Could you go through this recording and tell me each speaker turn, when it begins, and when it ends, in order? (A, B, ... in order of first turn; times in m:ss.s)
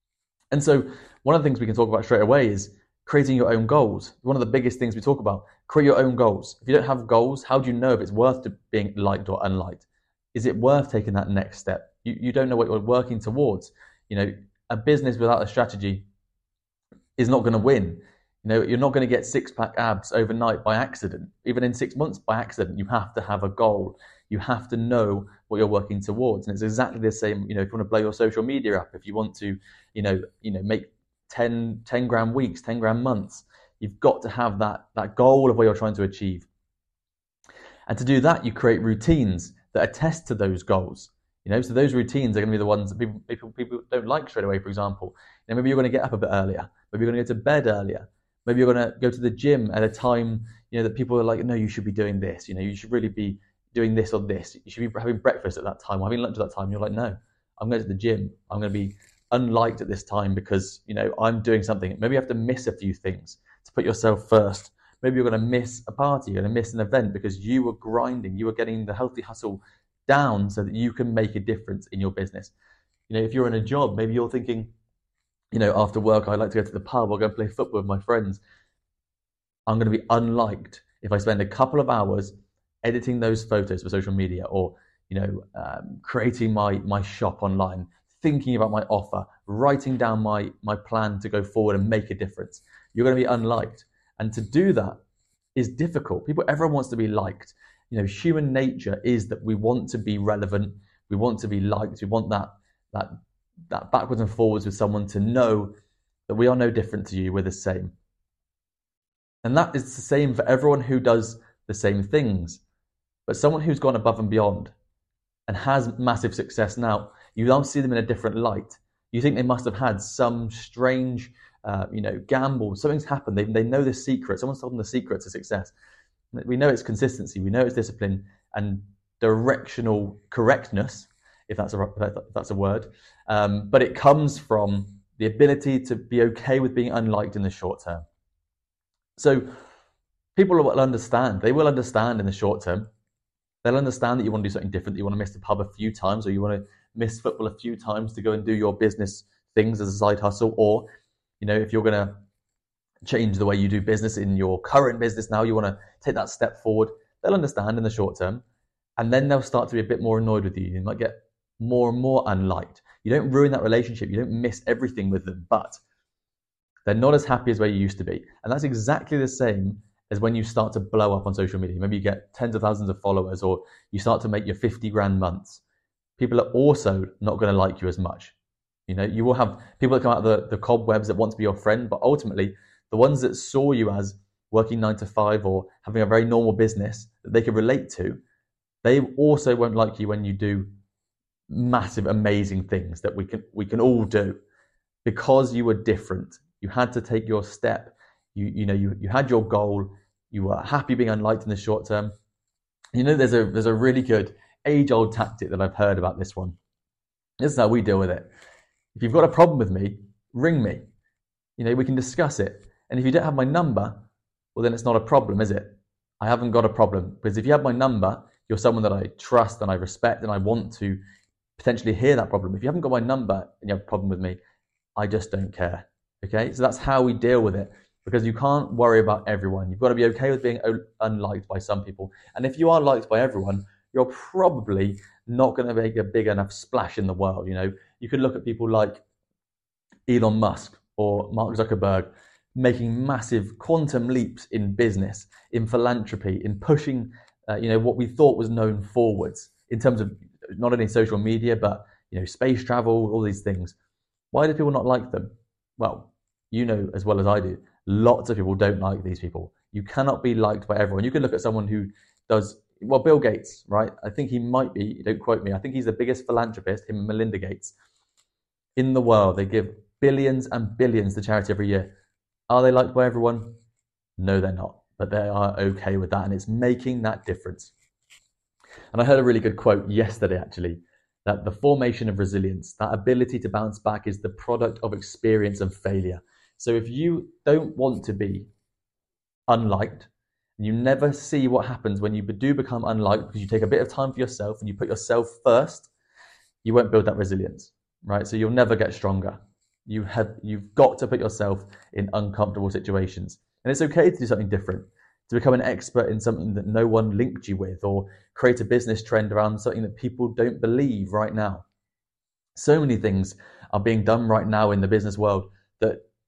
0:00.5-0:16.0 A
0:17.2-0:36.5 A
0:37.9-1:12.5 A
1:13.1-1:14.7 A
1:15.5-1:18.4 A
1:19.7-1:35.0 A
1:35.6-1:43.1 A
1:43.7-1:45.7 A
1:46.3-1:47.9 A
1:49.4-1:52.6 A
1:53.3-1:54.7 A
1:55.5-2:05.7 A
2:06.3-2:18.0 A
2:19.2-2:19.5 A
2:20.4-2:22.9 A
2:23.6-2:30.8 A
2:31.4-2:32.2 A
2:33.0-2:38.4 A
2:39.0-2:45.8 A
2:46.8-2:55.6 A
2:56.2-2:58.3 A
2:58.9-3:08.2 A
3:08.8-3:10.7 A
3:11.5-3:14.4 A
3:15.0-3:22.1 A
3:22.9-3:26.6 A
3:27.4-3:28.3 A
3:28.9-3:30.8 A
3:31.6-3:41.0 A
3:41.6-3:44.4 A
3:45.0-3:59.0 A
4:00.1-4:13.7 A
4:14.3-4:27.7 A
4:28.8-4:31.9 A
4:32.5-4:33.6 A
4:34.2-4:37.7 A
4:38.9-4:48.5 A
4:49.5-4:55.9 A
4:56.6-5:11.6 A
5:12.5-5:16.0 A